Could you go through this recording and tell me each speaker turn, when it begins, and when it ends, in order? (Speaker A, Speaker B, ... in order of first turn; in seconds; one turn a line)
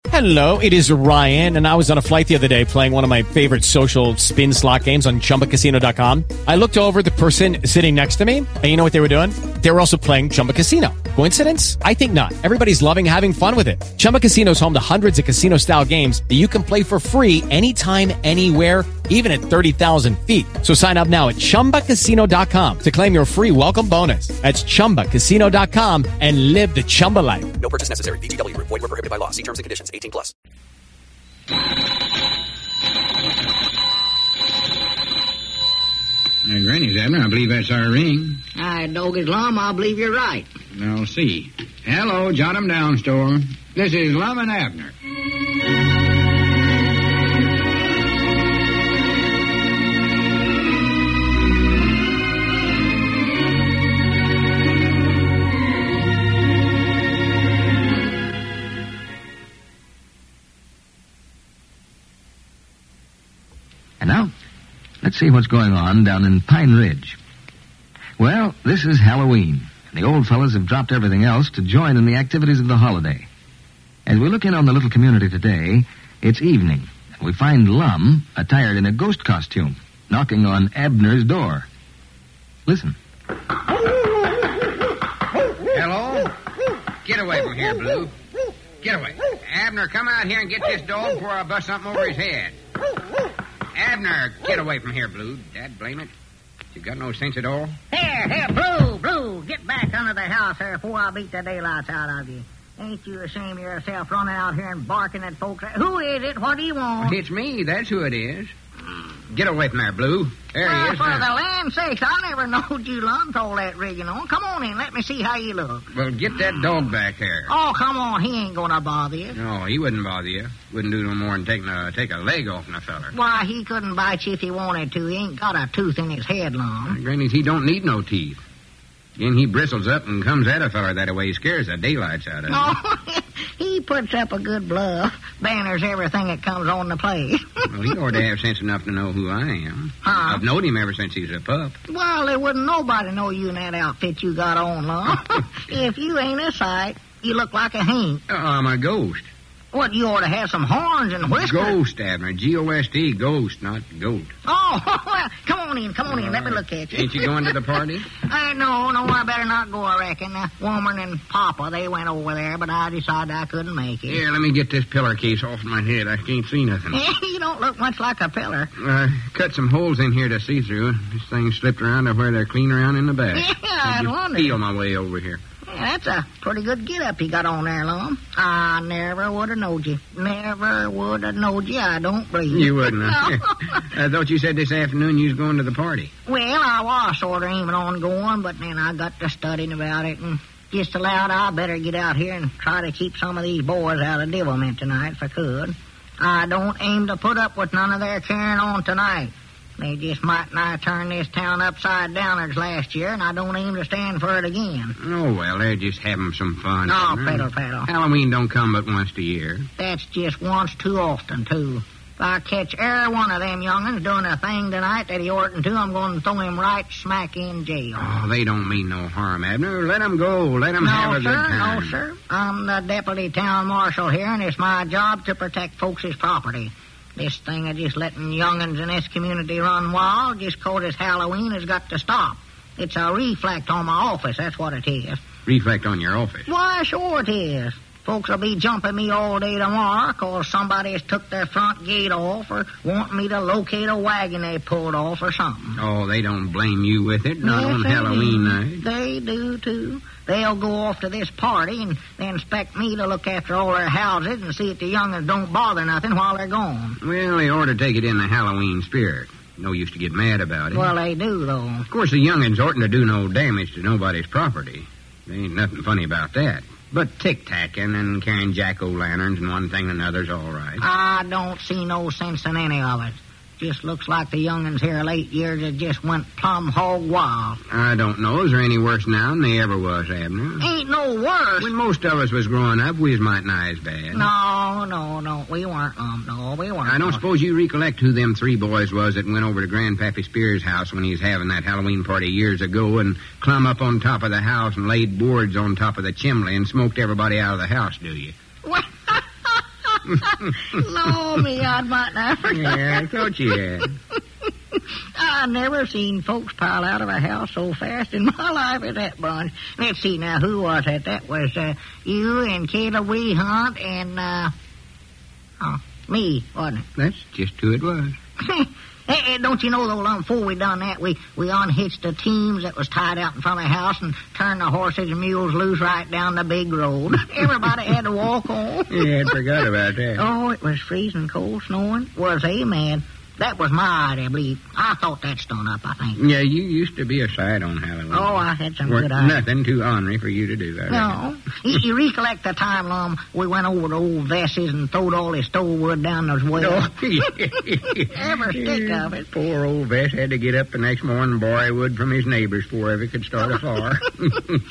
Speaker A: 0.1-27.6
Speaker B: 27.6-30.3
Speaker C: 36.5-38.4
Speaker D: 38.5-40.5
Speaker C: 40.7-44.9
Speaker E: 64.0-64.3
Speaker E: 65.0-67.2
Speaker E: 68.2-73.2
Speaker E: 74.1-81.7
Speaker C: 85.7-86.3
Speaker C: 87.0-88.1
Speaker C: 88.8-92.6
Speaker C: 93.8-96.1
Speaker C: 96.7-97.8
Speaker D: 97.9-107.2
Speaker C: 107.0-108.5
Speaker C: 109.3-111.3
Speaker D: 110.6-115.9
Speaker C: 115.9-117.5
Speaker D: 117.5-119.4
Speaker C: 119.3-123.1
Speaker D: 123.1-127.0
Speaker C: 126.9-128.4
Speaker C: 129.2-132.7
Speaker D: 132.5-137.5
Speaker C: 137.7-141.8
Speaker D: 140.0-140.4
Speaker D: 141.9-148.2
Speaker C: 148.3-149.3
Speaker D: 149.7-151.8
Speaker C: 151.4-154.3
Speaker D: 154.4-157.6
Speaker C: 156.1-158.1
Speaker D: 158.1-164.2
Speaker C: 164.1-167.0
Speaker D: 166.9-168.7
Speaker C: 168.8-175.4
Speaker D: 173.3-174.6
Speaker D: 175.7-183.3
Speaker C: 182.5-186.1
Speaker D: 186.3-204.9
Speaker C: 205.0-209.7
Speaker D: 206.9-207.9
Speaker D: 209.8-218.1
Speaker C: 218.0-222.0
Speaker D: 220.8-235.2
Speaker C: 235.5-236.5
Speaker D: 236.5-245.8
Speaker C: 245.8-248.8
Speaker D: 247.4-257.0
Speaker C: 257.0-260.9
Speaker D: 260.7-261.9
Speaker C: 261.9-270.8
Speaker D: 270.8-277.6
Speaker C: 277.7-280.7
Speaker D: 280.6-281.7
Speaker C: 281.6-284.3
Speaker D: 284.1-287.2
Speaker C: 286.9-298.3
Speaker D: 298.6-303.1
Speaker C: 302.5-304.0
Speaker D: 304.8-314.5
Speaker D: 315.6-316.9
Speaker C: 317.0-318.2
Speaker D: 318.4-329.0
Speaker C: 328.9-330.2
Speaker D: 330.2-336.2
Speaker C: 336.2-341.2
Speaker D: 338.1-339.4
Speaker D: 340.9-347.0
Speaker C: 346.6-354.6
Speaker D: 348.1-349.3